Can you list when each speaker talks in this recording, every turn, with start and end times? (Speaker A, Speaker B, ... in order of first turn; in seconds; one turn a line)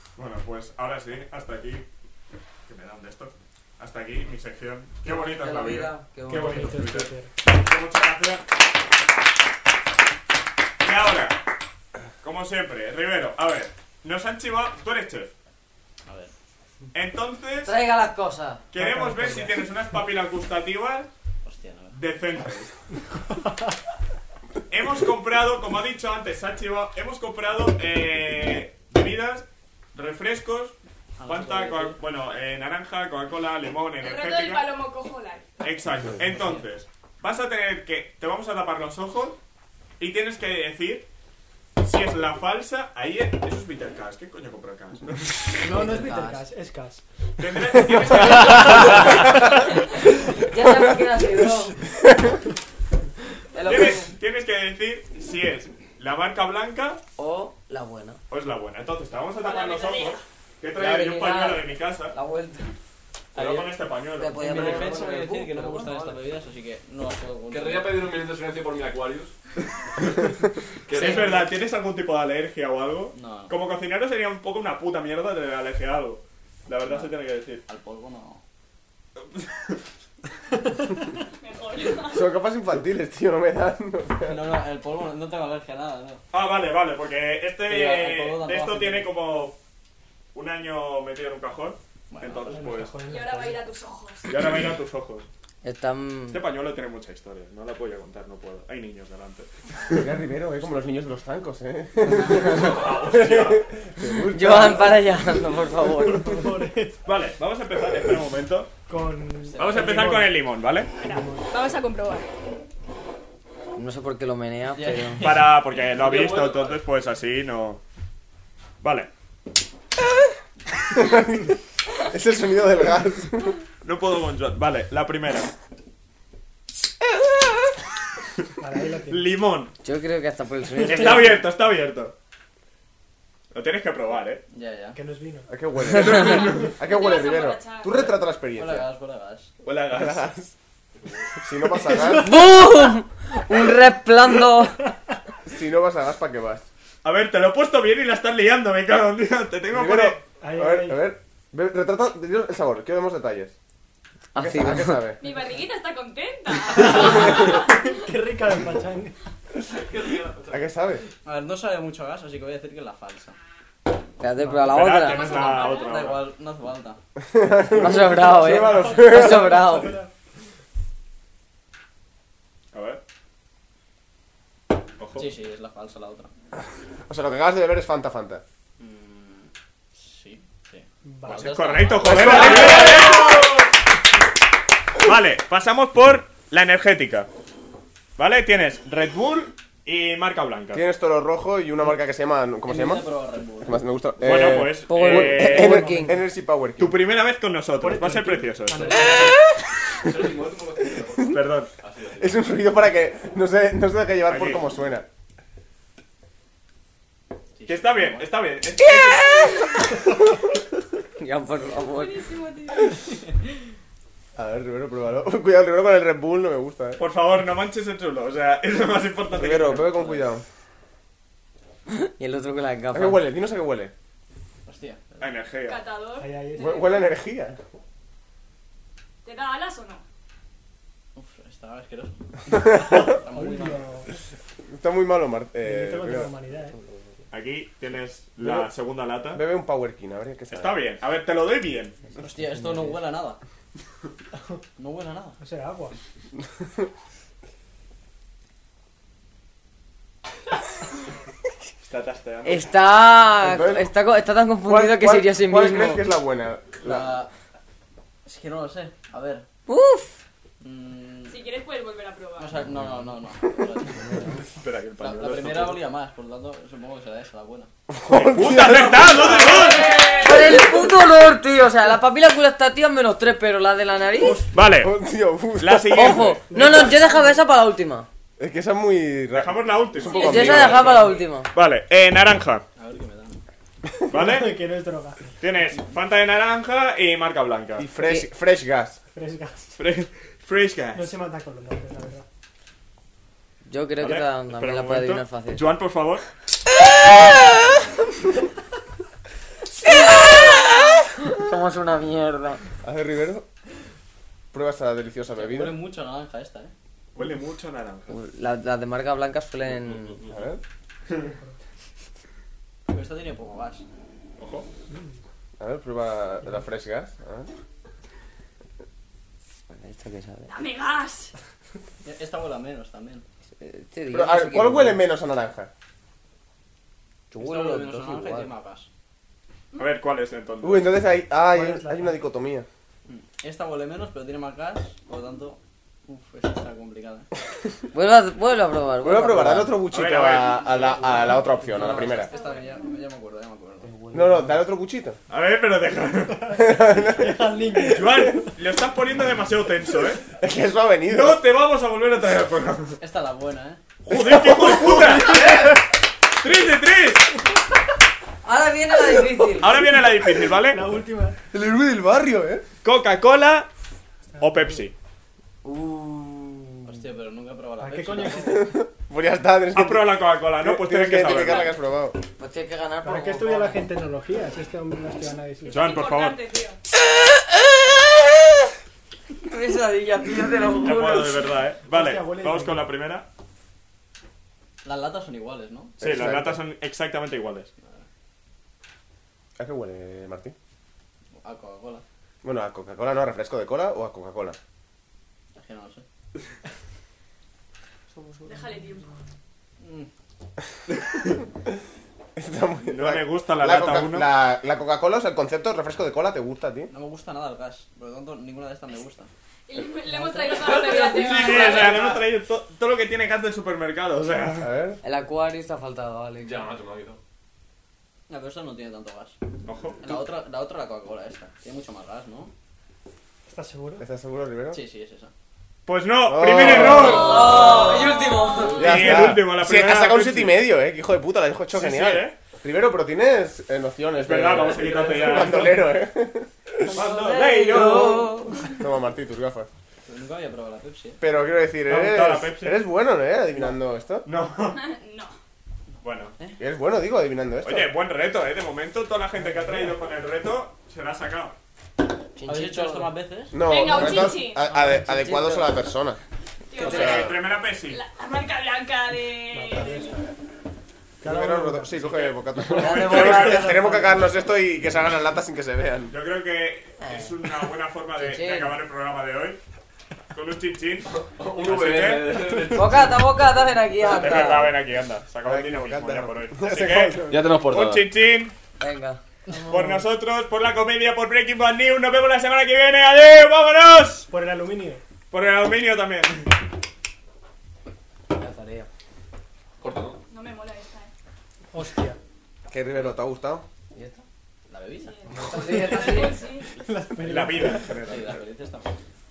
Speaker A: 0.1-1.8
Speaker A: 2.7-8.4
Speaker B: 5.0-6.8
Speaker C: 6.3-7.3
Speaker A: 10.8-11.4
Speaker A: 12.2-15.3
Speaker D: 16.1-16.3
Speaker A: 16.9-17.8
Speaker B: 17.6-19.5
Speaker A: 18.7-21.1
Speaker D: 21.4-22.0
Speaker A: 21.9-22.7
Speaker A: 24.7-34.7
Speaker D: 31.2-32.0
Speaker E: 34.0-35.5
Speaker A: 35.6-39.4
Speaker D: 36.3-36.6
Speaker A: 40.0-41.1
Speaker A: 41.8-45.5
Speaker C: 45.5-49.3
Speaker B: 45.6-46.5
Speaker A: 47.4-49.5
Speaker B: 48.8-49.1
Speaker B: 50.0-51.9
Speaker F: 51.9-52.3
Speaker B: 53.5-54.1
Speaker A: 53.6-57.0
Speaker B: 57.2-58.2
Speaker A: 58.3-62.1
Speaker E: 59.4-60.2
Speaker B: 60.7-62.7
Speaker D: 63.3-63.7
Speaker A: 63.3-64.9
Speaker B: 64.2-66.2
Speaker D: 64.4-68.1
Speaker G: 67.5-69.3
Speaker G: 70.8-71.5
Speaker A: 70.9-77.6
Speaker B: 70.9-71.5
Speaker D: 73.1-73.6
Speaker D: 76.8-77.1
Speaker D: 77.7-78.4
Speaker A: 79.3-79.8
Speaker E: 81.4-82.3
Speaker F: 82.1-84.4
Speaker D: 84.2-86.2
Speaker A: 86.3-89.6
Speaker D: 87.7-89.1
Speaker A: 90.3-93.0
Speaker D: 92.1-92.6
Speaker C: 92.4-93.6
Speaker E: 93.0-94.5
Speaker A: 94.3-95.3
Speaker B: 95.6-96.4
Speaker A: 96.3-100.0
Speaker F: 100.0-105.1
Speaker G: 102.3-103.7
Speaker B: 104.1-106.5
Speaker C: 106.0-107.0
Speaker A: 107.0-108.7
Speaker C: 108.9-110.4
Speaker D: 109.4-110.0
Speaker A: 109.6-110.9
Speaker E: 111.0-112.3
Speaker C: 111.0-111.5
Speaker B: 113.7-115.3
Speaker D: 114.7-116.6
Speaker A: 115.2-117.8
Speaker G: 115.9-116.7
Speaker A: 118.8-119.1
Speaker F: 120.9-123.6
Speaker A: 123.8-125.5
Speaker C: 128.6-129.4
Speaker A: 129.1-129.7
Speaker B: 129.8-131.4
Speaker A: 130.8-132.1
Speaker C: 130.9-131.2
Speaker A: 133.5-134.4
Speaker D: 134.5-135.0
Speaker C: 134.9-135.5
Speaker F: 135.5-138.9
Speaker B: 136.0-136.4
Speaker A: 136.2-136.7
Speaker E: 136.8-138.1
Speaker D: 138.6-139.5
Speaker A: 139.6-140.3
Speaker F: 139.9-140.5
Speaker F: 141.4-142.3
Speaker B: 142.1-144.8
Speaker F: 145.4-146.6
Speaker A: 147.0-150.2
Speaker F: 149.7-153.5
Speaker C: 150.4-151.0
Speaker B: 154.3-155.1
Speaker F: 154.3-155.2
Speaker E: 155.2-158.1
Speaker C: 157.5-159.1
Speaker G: 159.6-160.6
Speaker F: 160.5-161.0
Speaker D: 161.2-163.4
Speaker B: 164.2-165.5
Speaker C: 164.4-164.8
Speaker A: 164.6-166.2
Speaker E: 165.0-166.1
Speaker D: 165.2-167.0
Speaker F: 167.3-169.8
Speaker B: 167.7-170.0
Speaker C: 168.5-170.1
Speaker A: 172.7-173.0
Speaker A: 175.0-175.3
Speaker D: 175.1-176.3
Speaker F: 177.1-178.4
Speaker D: 178.8-183.1
Speaker C: 181.0-181.6
Speaker A: 181.2-183.6
Speaker F: 182.0-183.4
Speaker A: 185.0-187.3
Speaker A: 188.2-190.8
Speaker F: 190.7-193.1
Speaker D: 192.7-193.8
Speaker F: 193.6-197.0
Speaker A: 194.2-195.8
Speaker B: 194.8-196.2
Speaker C: 195.5-196.2
Speaker A: 196.8-199.3
Speaker C: 197.8-199.4
Speaker G: 200.0-202.4
Speaker F: 201.1-201.3
Speaker A: 201.3-201.7
Speaker F: 202.2-205.1
Speaker A: 204.2-204.7
Speaker D: 207.6-208.3
Speaker A: 207.7-209.6
Speaker B: 208.8-209.8
Speaker B: 211.2-212.3
Speaker E: 211.8-213.1
Speaker F: 214.3-217.0
Speaker A: 217.0-220.0
Speaker F: 219.3-220.4
Speaker D: 219.9-220.2
Speaker B: 221.9-223.3
Speaker F: 222.9-223.9
Speaker D: 224.7-225.3
Speaker A: 225.2-225.8
Speaker E: 225.6-227.1
Speaker C: 226.2-226.9
Speaker F: 226.6-227.6
Speaker E: 229.2-230.0
Speaker D: 231.1-233.9
Speaker C: 232.8-234.1
Speaker F: 234.7-236.3
Speaker C: 235.6-236.8
Speaker A: 237.3-239.4
Speaker F: 238.4-238.7
Speaker F: 239.3-240.8
Speaker A: 240.5-242.0
Speaker D: 242.2-243.4
Speaker D: 244.8-245.4
Speaker C: 245.4-246.0
Speaker A: 251.8-252.7
Speaker B: 252.4-256.1
Speaker F: 253.4-253.9
Speaker F: 254.6-257.1
Speaker D: 256.8-257.3
Speaker D: 258.2-259.4
Speaker B: 259.7-260.2
Speaker D: 260.6-261.4
Speaker E: 261.3-262.5
Speaker D: 262.4-264.2
Speaker B: 264.0-264.4
Speaker A: 264.6-265.7
Speaker D: 265.0-267.7
Speaker G: 265.5-265.8
Speaker F: 267.9-269.2
Speaker A: 268.1-269.9
Speaker E: 269.2-270.7
Speaker B: 270.1-274.5
Speaker A: 274.5-274.9
Speaker F: 274.8-276.4
Speaker A: 275.6-276.9
Speaker B: 275.9-278.1
Speaker C: 276.5-277.3
Speaker F: 278.4-280.9
Speaker A: 279.3-282.6
Speaker E: 280.0-281.4
Speaker B: 280.1-281.5
Speaker D: 282.8-283.4
Speaker A: 284.1-284.5
Speaker C: 284.1-285.4
Speaker A: 285.4-287.9
Speaker F: 287.8-289.0
Speaker B: 288.0-288.3
Speaker C: 289.1-289.7
Speaker A: 289.8-291.1
Speaker C: 290.9-292.2
Speaker B: 293.6-295.7
Speaker A: 294.0-296.2
Speaker B: 299.9-300.6
Speaker B: 301.2-302.6
Speaker F: 302.8-303.5
Speaker F: 304.5-305.8
Speaker D: 305.3-306.7
Speaker A: 307.1-308.1
Speaker B: 308.1-310.2
Speaker F: 310.3-310.6
Speaker C: 311.1-311.5
Speaker D: 312.9-313.8
Speaker A: 314.4-314.7
Speaker F: 315.6-317.5
Speaker B: 319.7-320.5
Speaker E: 320.5-321.3
Speaker D: 322.0-323.2
Speaker B: 323.6-325.0
Speaker F: 324.1-325.7
Speaker B: 327.3-328.5
Speaker D: 327.4-328.9
Speaker A: 329.7-331.0
Speaker F: 330.6-332.7
Speaker C: 331.5-332.2
Speaker D: 333.1-337.3
Speaker B: 337.9-339.8
Speaker F: 339.0-342.3
Speaker A: 339.9-340.7
Speaker D: 340.9-343.9
Speaker E: 341.8-343.0
Speaker B: 343.8-344.6
Speaker F: 344.1-345.2
Speaker A: 345.3-346.6
Speaker C: 346.3-348.5
Speaker F: 346.6-347.5
Speaker A: 347.8-350.2
Speaker F: 350.3-351.4
Speaker A: 351.1-353.0
Speaker D: 353.0-353.8
Speaker A: 354.1-355.7
Speaker F: 354.1-355.4
Speaker A: 356.4-357.3
Speaker B: 358.4-359.8
Speaker A: 359.6-360.8
Speaker C: 360.6-361.4
Speaker F: 361.5-362.6
Speaker A: 362.8-363.7
Speaker C: 364.3-364.8
Speaker A: 364.4-364.9
Speaker B: 365.6-367.0
Speaker D: 366.9-368.7
Speaker C: 367.8-368.7
Speaker F: 368.4-372.2
Speaker A: 369.7-371.7
Speaker B: 372.4-373.8
Speaker C: 373.0-375.8
Speaker E: 375.6-376.8
Speaker A: 375.7-376.4
Speaker B: 379.4-381.5
Speaker A: 380.7-383.3
Speaker C: 381.8-382.9
Speaker D: 384.8-385.9
Speaker A: 386.0-387.7
Speaker F: 386.0-386.6
Speaker D: 387.8-388.1
Speaker F: 389.6-390.5
Speaker D: 391.3-392.0
Speaker F: 392.4-394.6
Speaker D: 395.6-396.1
Speaker B: 398.1-398.6
Speaker E: 398.5-399.1
Speaker D: 399.8-400.1
Speaker F: 402.4-406.9
Speaker A: 402.9-404.3
Speaker D: 406.9-409.3
Speaker E: 409.7-412.2
Speaker D: 410.1-412.2
Speaker A: 411.0-414.7
Speaker F: 414.6-415.0
Speaker B: 415.0-416.7
Speaker G: 416.4-417.2
Speaker D: 418.3-419.4
Speaker A: 419.6-420.0
Speaker D: 420.0-422.5
Speaker C: 423.5-424.1
Speaker F: 424.0-424.8
Speaker D: 424.7-425.3
Speaker A: 425.9-427.5
Speaker F: 426.2-427.4
Speaker E: 426.8-428.8
Speaker B: 427.1-428.9
Speaker A: 428.8-430.7
Speaker F: 428.8-436.9
Speaker A: 431.7-432.4
Speaker A: 434.2-435.9
Speaker G: 434.6-435.6
Speaker A: 436.9-438.5
Speaker B: 436.9-438.8
Speaker F: 438.8-439.7
Speaker D: 440.1-441.2
Speaker F: 441.2-444.2
Speaker A: 441.9-442.9
Speaker A: 444.2-444.8
Speaker E: 444.7-445.3
Speaker A: 446.0-446.3
Speaker F: 446.6-447.9
Speaker A: 447.6-451.6
Speaker C: 449.4-450.0
Speaker B: 452.3-453.1
Speaker D: 452.4-454.0
Speaker F: 453.5-456.2
Speaker E: 453.6-454.7
Speaker B: 455.1-455.7
Speaker E: 456.7-460.2
Speaker B: 456.8-457.2
Speaker A: 456.8-458.0
Speaker F: 456.8-457.4
Speaker C: 459.5-460.3
Speaker C: 461.2-462.0
Speaker F: 461.2-466.1
Speaker A: 462.0-463.8
Speaker B: 462.7-464.2
Speaker A: 466.1-469.6
Speaker B: 467.0-468.7
Speaker A: 470.3-472.5
Speaker G: 471.1-473.2
Speaker B: 472.7-474.7
Speaker A: 474.0-478.5
Speaker F: 475.4-477.5
Speaker G: 477.3-478.1
Speaker B: 478.8-479.2
Speaker C: 479.6-480.0
Speaker A: 479.7-484.3
Speaker C: 484.3-485.0
Speaker A: 485.3-486.6
Speaker B: 488.3-488.9
Speaker G: 489.8-490.2
Speaker E: 490.3-491.1
Speaker C: 491.7-492.2
Speaker F: 492.7-493.6
Speaker B: 493.9-494.2
Speaker D: 494.7-495.1
Speaker E: 495.0-496.7
Speaker B: 495.3-496.4
Speaker C: 495.5-498.0
Speaker A: 497.2-498.4
Speaker D: 498.0-498.9